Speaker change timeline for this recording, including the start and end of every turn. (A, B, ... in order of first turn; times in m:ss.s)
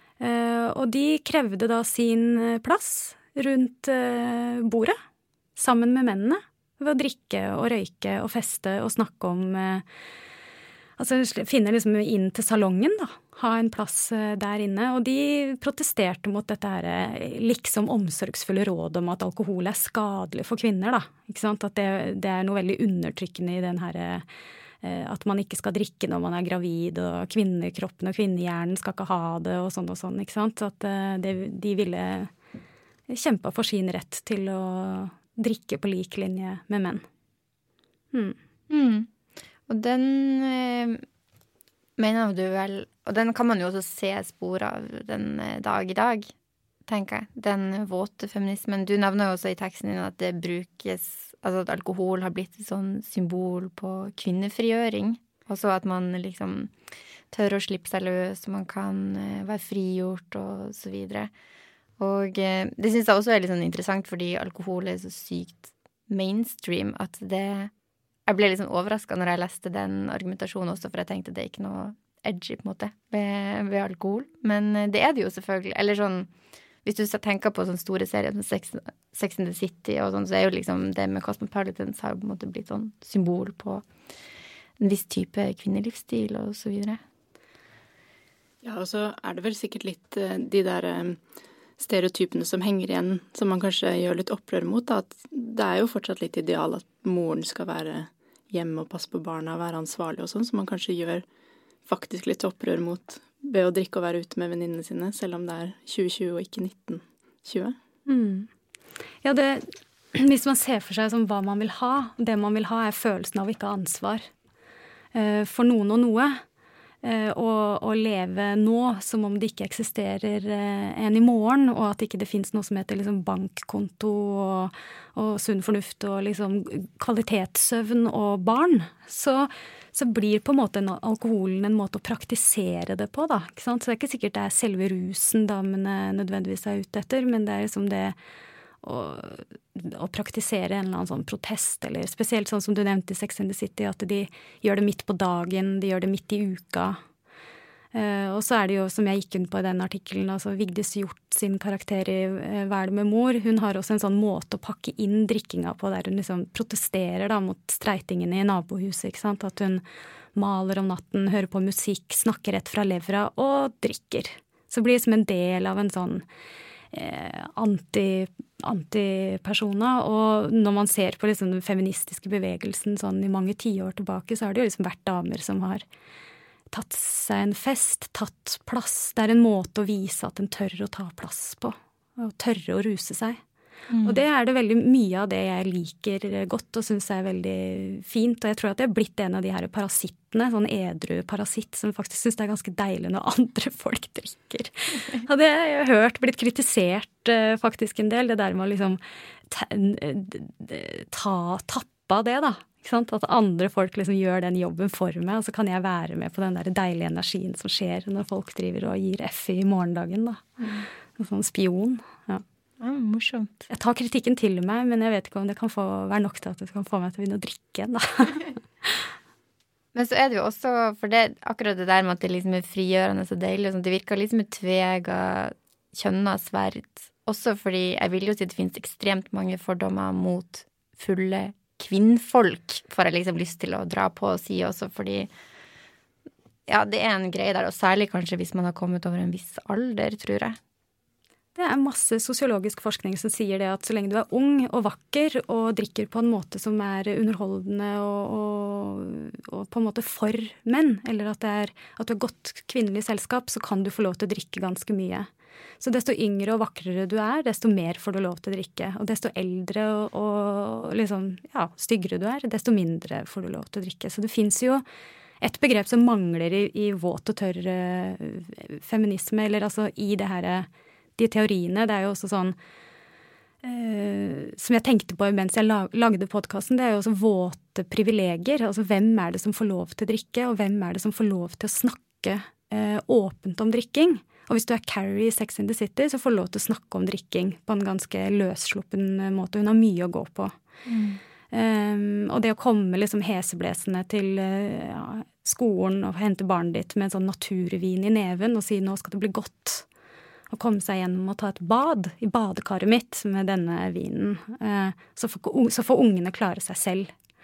0:00.2-0:05.0 A
0:05.6-0:09.8 A
0:11.0-0:24.2 A
0:24.8-0:32.3 A
0:33.1-0:37.0 A
0:38.7-0:39.1 B
0:39.7-0:41.0 B
0:42.0-0:46.3 B
0:46.8-0:56.7 B
0:57.3-1:01.3 B
1:02.0-1:07.7 B
1:08.3-1:16.3 B
1:16.8-1:23.8 B
1:24.8-1:27.0 B
1:28.6-1:31.2 C
1:31.8-1:41.2 C
1:41.8-1:47.8 C
1:48.1-1:48.5 A
1:49.2-1:54.2 A
1:55.1-1:56.4 A
1:57.0-2:18.1 A
2:18.8-2:27.0 A
2:27.9-2:39.8 A
2:40.3-2:46.2 A
2:46.9-2:55.8 A
2:56.7-3:03.4 A
3:03.9-3:04.2 B
3:04.0-3:30.6 A
3:30.6-3:30.8 B
3:31.2-3:32.4 A
3:32.8-3:33.6 B
3:33.7-3:39.0 A
3:39.9-3:55.3 B
3:56.7-4:00.6 B
4:01.5-4:15.3 A
4:15.8-4:24.8 A
4:25.4-4:32.6 A
4:33.6-4:50.5 A
4:50.8-4:51.2 B
4:51.5-4:59.9 A
5:00.5-5:07.1 A